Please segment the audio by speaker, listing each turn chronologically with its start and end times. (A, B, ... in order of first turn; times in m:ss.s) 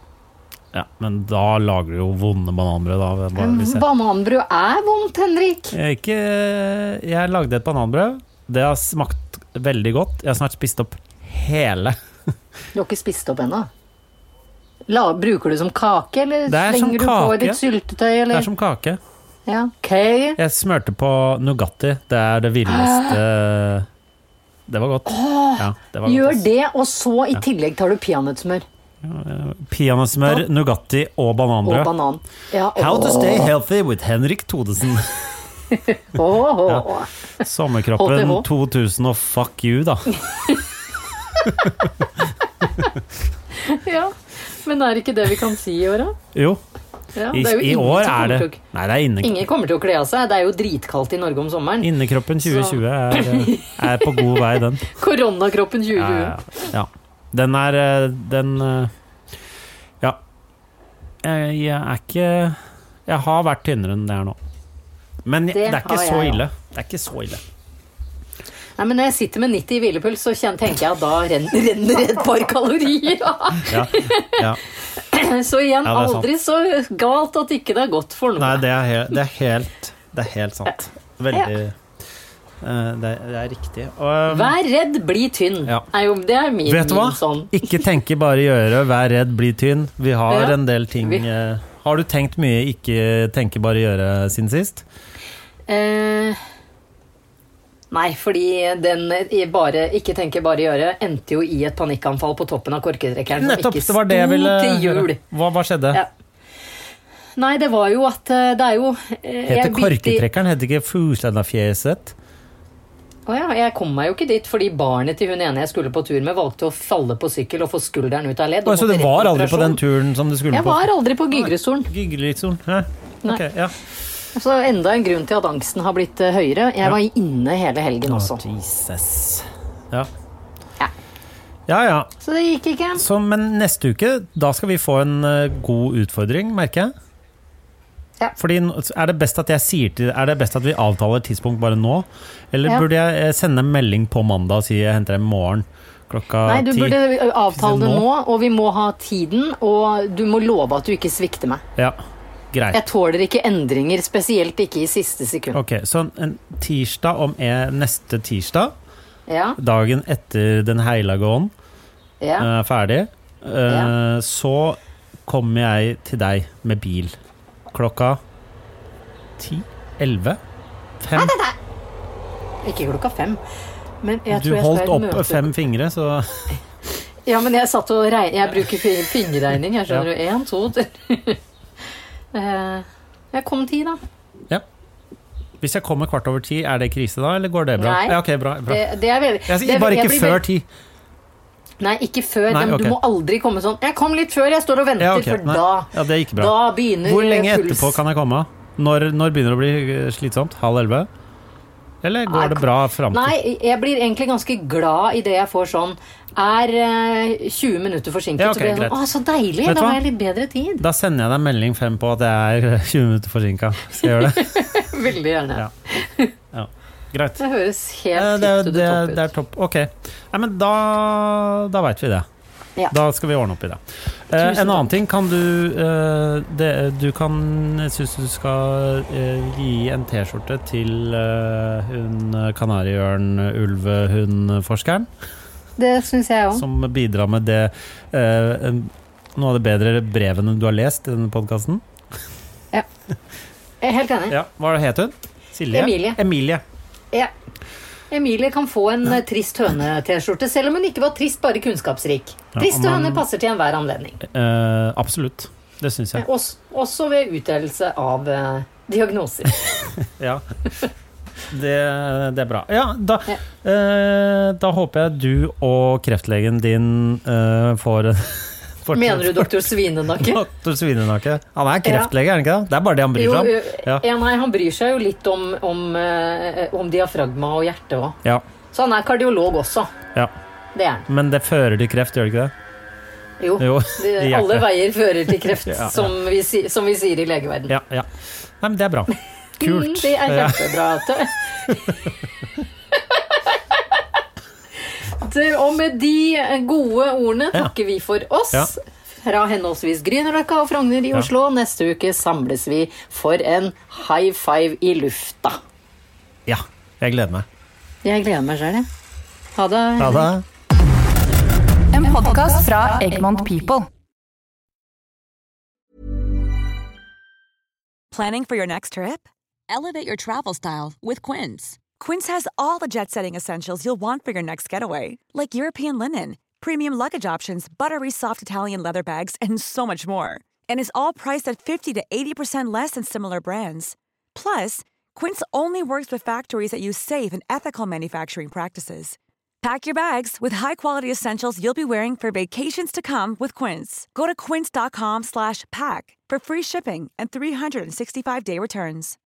0:00.7-0:03.8 A
0:03.4-0:05.8 B
0:05.7-0:12.0 A
0:12.7-0:13.7 B
0:14.9-0:18.5 B
0:16.5-0:17.6 A
0:18.3-0:19.0 A
0:19.5-0:20.4 B
0:20.4-0:23.9 A
0:22.7-0:23.2 B
0:24.7-0:26.5 A
0:25.1-0:28.7 B
0:29.0-0:31.9 A
0:31.6-0:33.5 B
0:32.8-0:35.3 A
0:35.7-0:37.1 B
0:37.4-0:40.2 A
0:38.0-0:38.5 B
0:40.4-0:40.6 B
0:43.6-0:46.2 B
0:46.3-0:46.6 A
0:47.2-0:48.6 B
0:47.3-0:49.4 A
0:49.2-0:51.9 B
0:51.8-0:54.9 A
0:52.4-0:56.4 B
0:56.0-0:58.9 A
1:01.2-1:04.4 A
1:05.2-1:07.4 A
1:05.5-1:06.4 B
1:08.8-1:18.6 B
1:13.6-1:14.6 A
1:15.8-1:16.3 A
1:18.4-1:21.8 A
1:22.6-1:24.6 A
1:24.3-1:27.7 B
1:26.7-1:34.8 A
1:30.3-1:31.2 B
1:35.7-1:36.4 B
1:37.9-1:45.2 B
1:43.4-1:46.0 A
1:47.4-1:50.3 B
1:49.5-1:52.2 A
1:53.3-1:59.8 B
1:58.6-2:03.8 A
2:00.5-2:01.9 B
2:04.3-2:08.4 B
2:08.1-2:10.1 A
2:11.7-2:12.1 A
2:12.2-2:13.0 B
2:13.0-2:16.9 A
2:18.4-2:28.1 A
2:26.4-2:31.6 B
2:32.5-2:32.8 A
2:32.7-2:35.6 B
2:35.5-2:38.8 A
2:39.3-2:39.6 B
2:39.6-2:41.5 A
2:42.2-2:42.5 B
2:42.4-2:47.2 A
2:43.7-2:43.9 B
2:47.7-2:48.2 A
2:49.4-2:50.4 A
2:51.0-2:51.4 A
2:51.1-2:51.6 B
2:52.6-2:53.4 B
2:54.0-2:55.5 B
2:54.3-2:56.5 A
2:57.3-3:01.4 B
3:02.3-3:04.0 B
3:05.6-3:08.9 A
3:07.8-3:10.4 B
3:09.4-3:10.7 A
3:11.8-3:18.0 B
3:12.5-3:13.0 A
3:15.0-3:21.1 A
3:22.0-3:23.4 A
3:22.3-3:30.8 B
3:28.4-3:29.1 A
3:29.6-3:30.0 A
3:30.8-3:34.7 A
3:34.2-3:36.3 B
3:36.5-3:37.4 A
3:37.4-3:39.3 B
3:38.2-3:42.3 A
3:42.9-3:55.1 A
3:44.4-3:44.9 B
3:55.8-3:56.6 B
3:56.5-4:01.8 A
4:03.8-4:04.4 B
4:04.3-4:06.6 A
4:05.7-4:06.2 B
4:08.1-4:14.2 B
4:12.6-4:13.2 A
4:14.2-4:16.2 A
4:16.2-4:19.9 B
4:20.0-4:20.9 A
4:21.5-4:34.1 A
4:28.9-4:30.4 B
4:31.8-4:32.1 B
4:33.2-4:38.2 B
4:38.7-4:39.9 B
4:40.7-4:41.1 B
4:41.1-4:42.5 A
4:43.4-4:47.8 B
4:43.6-4:46.1 A
4:47.7-4:50.8 A
4:49.6-4:51.8 B
4:51.7-4:52.0 A
4:55.1-5:05.6 B
5:06.5-5:07.5 A
5:08.0-5:08.9 B
5:09.6-5:10.3 B
5:10.0-5:10.4 A
5:11.9-5:13.9 C
5:18.1-5:49.2 D